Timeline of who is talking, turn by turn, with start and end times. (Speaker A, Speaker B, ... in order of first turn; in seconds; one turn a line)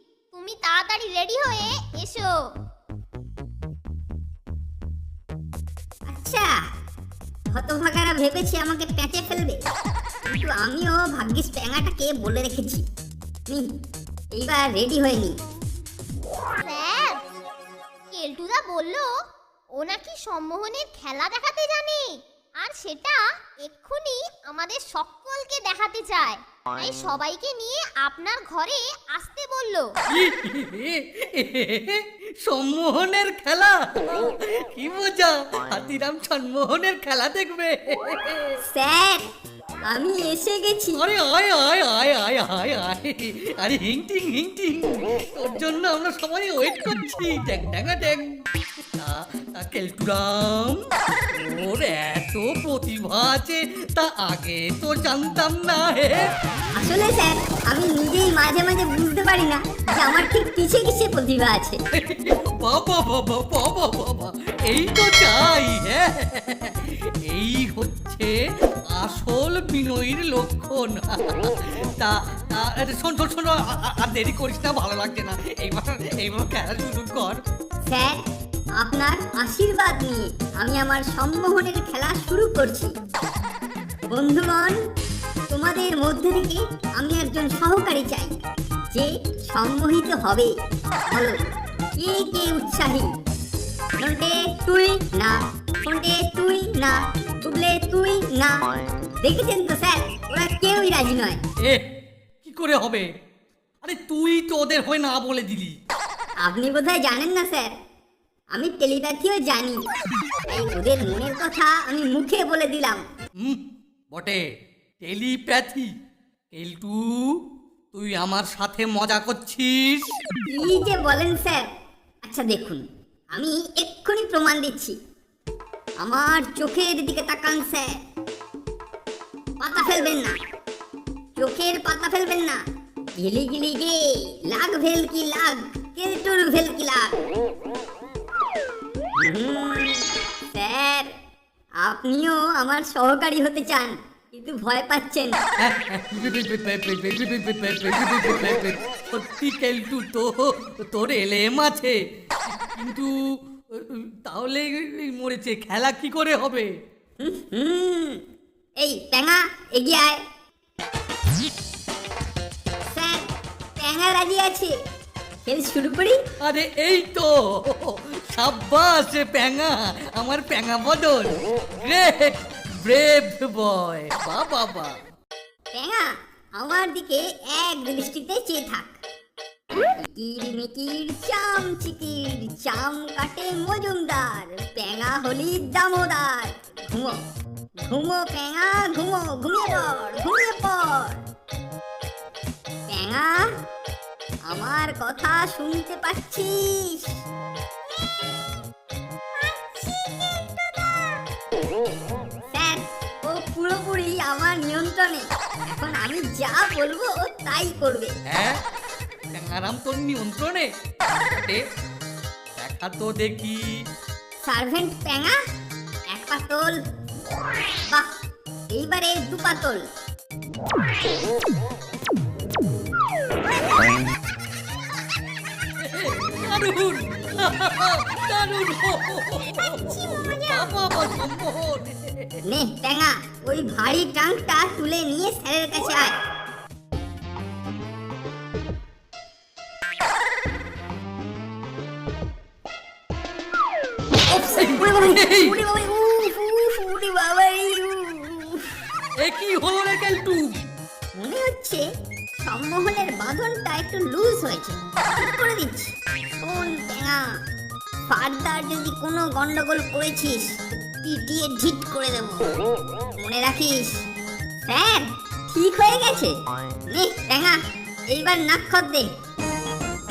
Speaker A: 0.3-2.3
Speaker B: 6.1-6.5
Speaker B: 7.5-9.6
Speaker B: 10.4-12.8
Speaker B: 14.3-15.4
Speaker A: 16.6-17.2
Speaker A: 18.1-19.1
Speaker A: 19.8-29.9
Speaker C: 30.1-38.6
Speaker B: 38.7-39.2
Speaker B: 39.9-41.1
Speaker C: 41.0-48.4
Speaker C: 49.0-50.8
Speaker C: 51.3-56.3
Speaker B: 56.8-61.8
Speaker C: 62.0-68.3
Speaker C: 68.9-77.4
Speaker B: 77.9-78.2
Speaker B: 78.8-82.9
Speaker B: 84.1-84.8
Speaker B: 85.5-88.4
Speaker B: 88.9-90.5
Speaker B: 91.1-91.4
Speaker B: 92.0-93.1
Speaker B: 94.0-101.4
Speaker C: 102.4-103.1
Speaker C: 103.8-105.8
Speaker B: 106.4-107.7
Speaker B: 108.5-109.9
Speaker B: 110.5-113.0
Speaker C: 114.1-114.4
Speaker C: 115.0-115.9
Speaker C: 116.5-117.4
Speaker C: 117.9-120.1
Speaker B: 120.5-121.6
Speaker B: 122.2-125.0
Speaker B: 126.0-128.0
Speaker B: 129.6-130.4
Speaker B: 131.4-132.6
Speaker B: 133.2-137.1
Speaker B: 139.2-141.1
Speaker B: 141.8-145.4
Speaker C: 145.6-153.1
Speaker C: 153.7-156.7
Speaker B: 157.2-158.2
Speaker B: 158.8-160.2
Speaker B: 162.9-163.3
Speaker B: 163.8-164.8
Speaker B: 165.5-166.2
Speaker C: 166.4-174.9
Speaker B: 175.7-178.9
Speaker B: 179.8-187.2
Speaker B: 187.9-191.2
Speaker B: 192.9-193.5
Speaker B: 194.5-197.2
Speaker B: 199.4-201.2
Speaker B: 202.5-208.1
Speaker C: 208.3-208.6
Speaker C: 209.3-210.7
Speaker C: 211.3-211.6
Speaker C: 212.6-213.6
Speaker B: 214.4-215.4
Speaker B: 216.1-216.8
Speaker B: 218.7-219.9
Speaker C: 225.8-232.4
Speaker B: 229.4-230.7
Speaker B: 232.5-236.1
Speaker B: 244.3-248.6
Speaker C: 244.4-245.6
Speaker C: 249.2-250.6
Speaker B: 251.2-251.8
Speaker B: 252.4-257.4
Speaker B: 258.1-262.5
Speaker B: 263.2-264.1
Speaker B: 264.7-269.1